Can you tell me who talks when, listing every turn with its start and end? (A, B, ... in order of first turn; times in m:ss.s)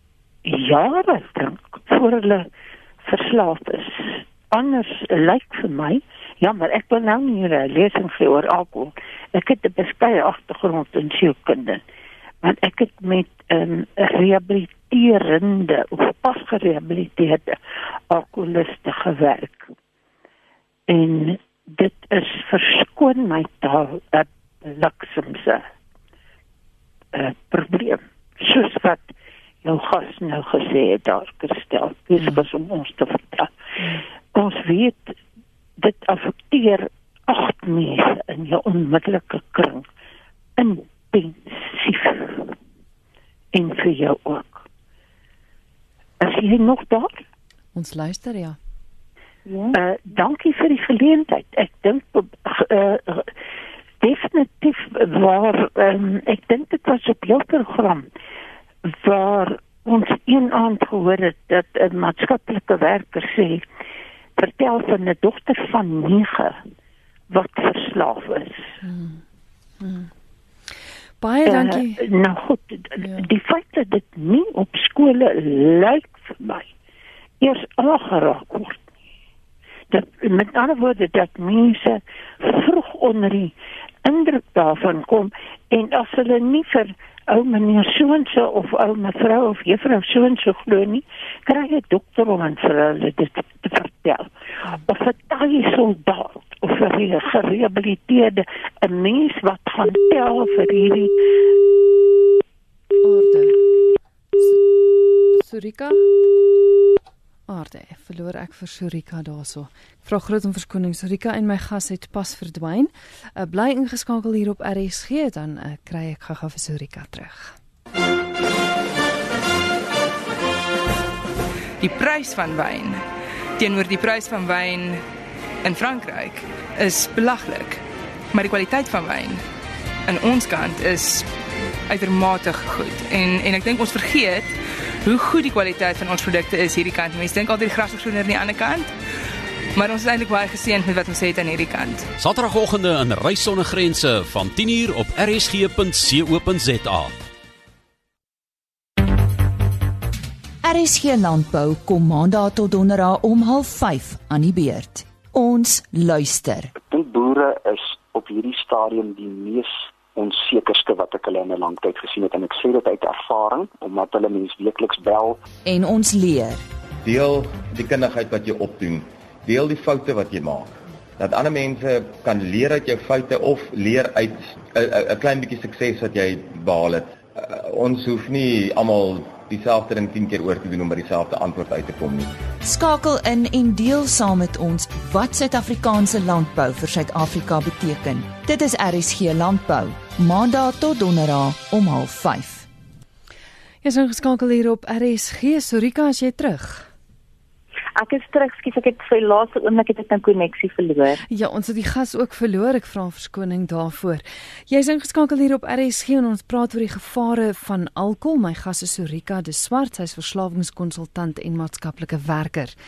0:00.4-0:02.5 A
0:03.0-0:11.8 A
0:12.4-0:17.6 A
0:18.1-0:19.7 A
0:20.9-0:25.6 A
0:27.1-0:33.5 A
0:34.3-0:35.2 A
0:35.8-0:39.9 A
0:40.6-0:42.5 A
0:43.5-0:44.6 A
0:46.2-0:47.2 A
0:47.7-0:48.6 B
0:49.5-0:49.8 C
0:49.7-0:53.3 A
0:54.0-0:58.1 A
0:58.8-1:03.6 A
1:04.4-1:06.6 A
1:07.3-1:08.7 A
1:08.8-1:09.2 B
1:09.8-1:10.1 B
1:11.2-1:12.0 B
1:11.4-1:16.7 A
1:13.0-1:13.2 B
1:17.4-1:18.8 A
1:19.9-1:23.5 A
1:24.0-1:41.2 A
1:43.0-1:43.7 B
1:44.4-1:44.7 B
1:45.3-1:46.2 B
1:47.5-1:57.6 B
2:01.8-2:03.0 D
2:03.6-2:05.0 D
2:05.6-2:07.8 D
2:08.3-2:09.4 D
2:10.1-2:11.3 D
2:11.9-2:18.9 D
2:19.7-2:22.1 D
2:22.2-2:27.2 E
2:30.6-2:36.7 F
2:36.7-2:45.4 G
2:45.6-2:46.6 F
2:47.0-3:02.4 H
3:02.6-3:12.7 F
3:13.8-3:16.9 B
3:18.0-3:21.2 C
3:21.3-3:32.7 B